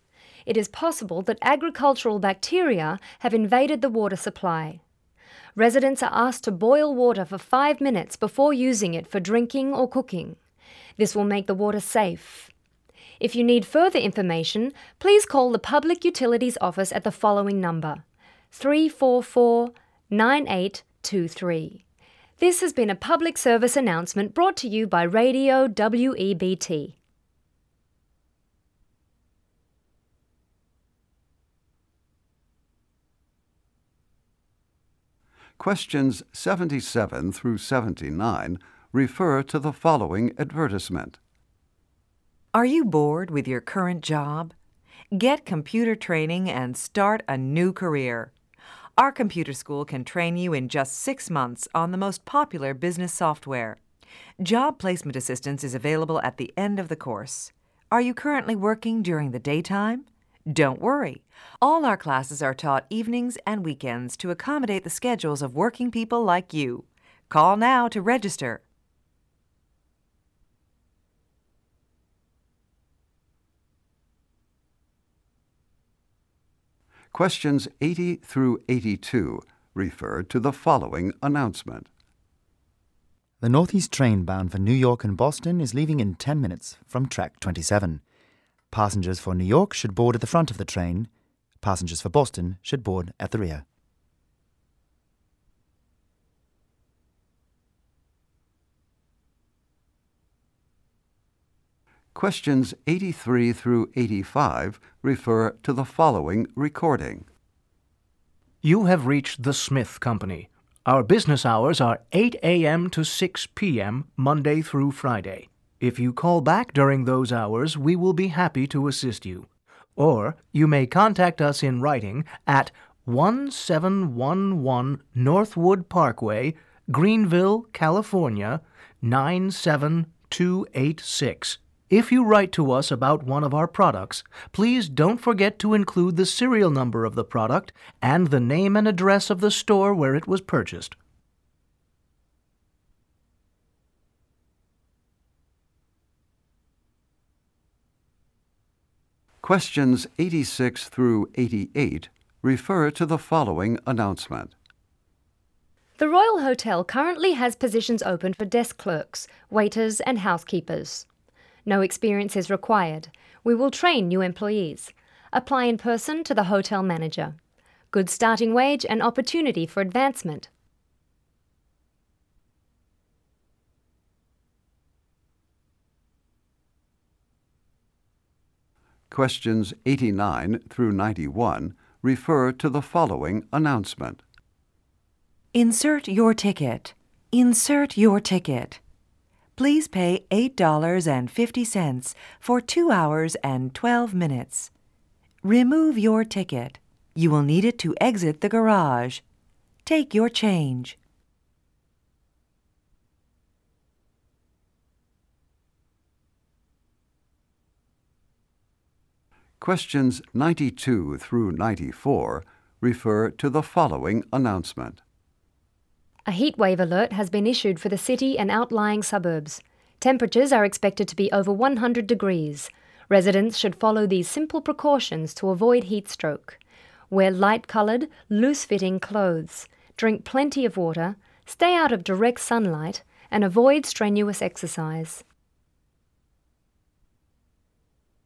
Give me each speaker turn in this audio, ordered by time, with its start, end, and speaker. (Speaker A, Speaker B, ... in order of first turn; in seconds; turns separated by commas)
Speaker A: 0.5-4.8, Speaker A: 5.6-10.4, Speaker A: 11.0-12.5, Speaker A: 13.2-21.8, Speaker A: 22.4-26.9, Speaker B: 35.6-41.2, Speaker C: 42.5-44.5, Speaker C: 45.1-48.3, Speaker C: 49.0-53.8, Speaker C: 54.4-68.6, Speaker B: 77.1-81.9, Speaker D: 83.4-88.0, Speaker D: 88.7-91.1, Speaker D: 91.6-93.7, Speaker B: 102.1-107.3, Speaker E: 108.6-140.9, Speaker B: 149.4-154.5, Speaker A: 156.0-161.1, Speaker A: 161.7-167.4, Speaker A: 167.9-170.5, Speaker B: 179.1-184.2, Speaker C: 185.5-188.8, Speaker C: 189.6-194.7, Speaker C: 195.4-199.2, Speaker C: 199.8-201.0, Speaker B: 209.6-215.0, Speaker A: 216.3-226.6, Speaker A: 227.1-235.2